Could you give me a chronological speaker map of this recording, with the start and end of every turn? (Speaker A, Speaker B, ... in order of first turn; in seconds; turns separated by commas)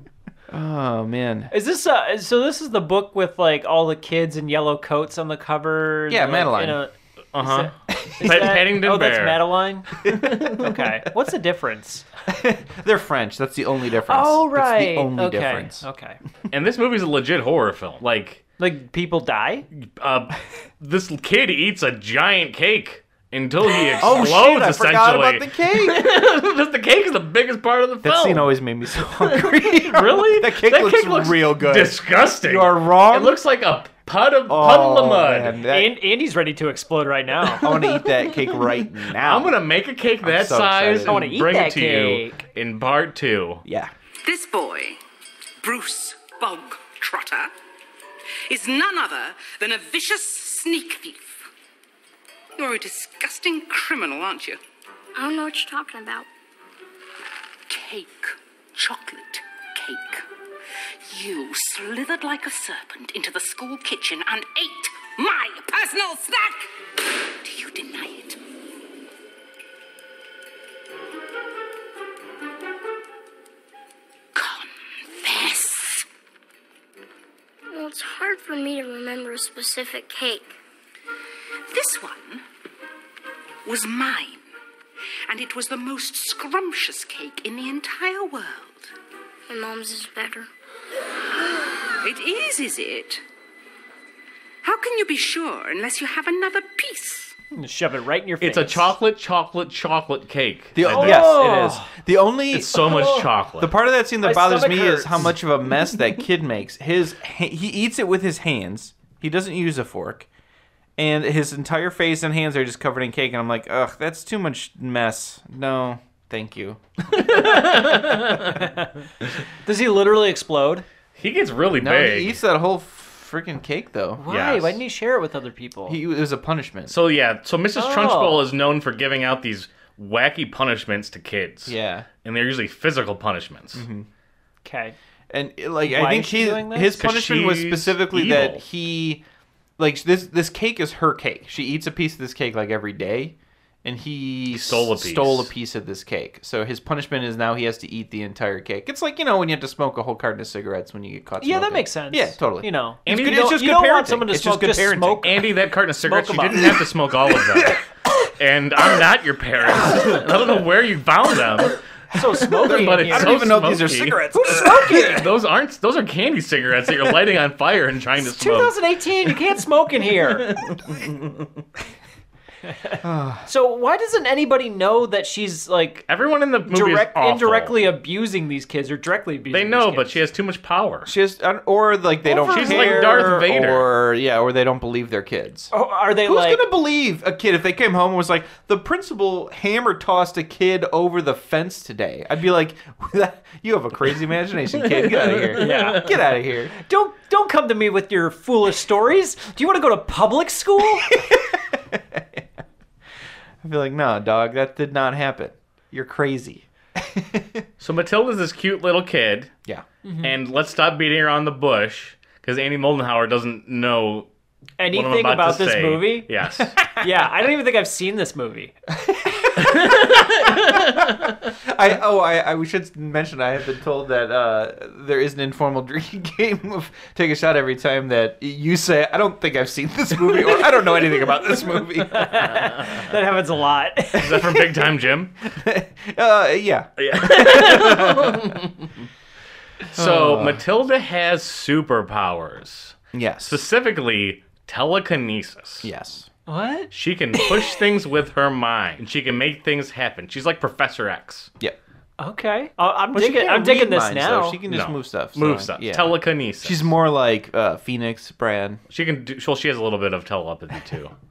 Speaker A: 0.5-1.5, Speaker B: 1.5-12.1, Speaker A: 6.1-6.8, Speaker C: 7.3-9.4, Speaker A: 8.0-8.6, Speaker C: 10.0-10.6, Speaker A: 10.1-10.7, Speaker A: 12.3-15.9, Speaker B: 14.1-16.2, Speaker C: 16.5-18.4, Speaker B: 18.6-19.7, Speaker C: 19.7-35.6, Speaker A: 24.0-26.0, Speaker A: 28.0-33.4, Speaker A: 34.5-36.0, Speaker B: 35.7-37.9, Speaker A: 37.6-39.6, Speaker C: 39.2-43.6, Speaker A: 40.2-41.2, Speaker B: 41.1-42.4, Speaker A: 43.6-43.9, Speaker D: 44.2-45.0, Speaker D: 45.6-47.5, Speaker D: 48.5-51.5, Speaker D: 52.6-54.6, Speaker E: 55.2-56.3, Speaker D: 57.7-60.3, Speaker D: 61.1-66.6, Speaker D: 67.4-68.4, Speaker D: 74.3-76.1, Speaker E: 77.7-80.5, Speaker D: 81.7-82.4, Speaker D: 83.7-84.5, Speaker D: 85.3-88.9, Speaker E: 89.5-90.5, Speaker D: 92.0-93.2, Speaker D: 94.6-97.3, Speaker B: 97.5-98.9, Speaker C: 98.4-101.8, Speaker A: 100.8-110.3, Speaker B: 100.8-101.9, Speaker C: 102.5-103.7, Speaker B: 102.7-103.3, Speaker B: 104.2-105.4, Speaker A: 111.0-116.8, Speaker C: 117.1-118.6, Speaker B: 118.4-118.9, Speaker B: 119.6-120.8, Speaker C: 121.2-122.4, Speaker A: 121.8-124.3, Speaker B: 124.2-126.0, Speaker C: 124.3-124.7, Speaker A: 125.9-126.9, Speaker C: 126.9-133.8, Speaker B: 127.8-128.5, Speaker A: 131.7-132.1, Speaker A: 133.7-134.1, Speaker B: 134.7-135.0, Speaker A: 135.3-139.2, Speaker B: 135.8-137.1, Speaker C: 137.0-138.6, Speaker A: 139.8-155.3, Speaker C: 144.5-145.5, Speaker B: 151.4-155.5, Speaker C: 153.1-153.4, Speaker C: 155.2-157.8, Speaker B: 156.0-156.8, Speaker A: 157.5-157.8, Speaker C: 158.4-161.8, Speaker B: 162.1-163.5, Speaker A: 162.2-165.2, Speaker C: 162.5-164.2, Speaker B: 164.3-165.3, Speaker C: 164.9-168.7, Speaker B: 168.2-170.6, Speaker C: 170.4-171.5, Speaker B: 172.7-176.1, Speaker A: 173.0-173.5, Speaker C: 176.1-177.9, Speaker B: 176.7-180.2, Speaker C: 179.5-181.1, Speaker A: 181.1-185.7, Speaker B: 182.3-183.4, Speaker C: 182.5-183.9, Speaker B: 185.7-186.7, Speaker A: 186.2-196.7, Speaker C: 194.8-196.1, Speaker B: 195.6-196.2, Speaker B: 196.8-201.2, Speaker A: 201.1-202.4, Speaker A: 203.6-207.7, Speaker C: 207.8-209.5, Speaker B: 210.0-210.4, Speaker C: 210.2-214.3, Speaker B: 214.8-216.3, Speaker C: 214.9-216.8, Speaker A: 216.8-217.1, Speaker B: 216.9-218.7, Speaker A: 218.9-232.7, Speaker C: 219.6-221.5, Speaker B: 231.9-234.3, Speaker C: 232.6-233.1, Speaker C: 234.1-235.3, Speaker A: 234.2-234.9, Speaker A: 235.4-238.5, Speaker C: 237.0-238.9, Speaker A: 239.9-240.6, Speaker C: 239.9-245.9, Speaker A: 243.1-243.6, Speaker A: 245.8-246.3, Speaker B: 246.5-247.7, Speaker C: 246.9-251.5, Speaker B: 252.2-254.6, Speaker A: 253.1-258.8, Speaker C: 254.7-256.9, Speaker C: 258.9-261.1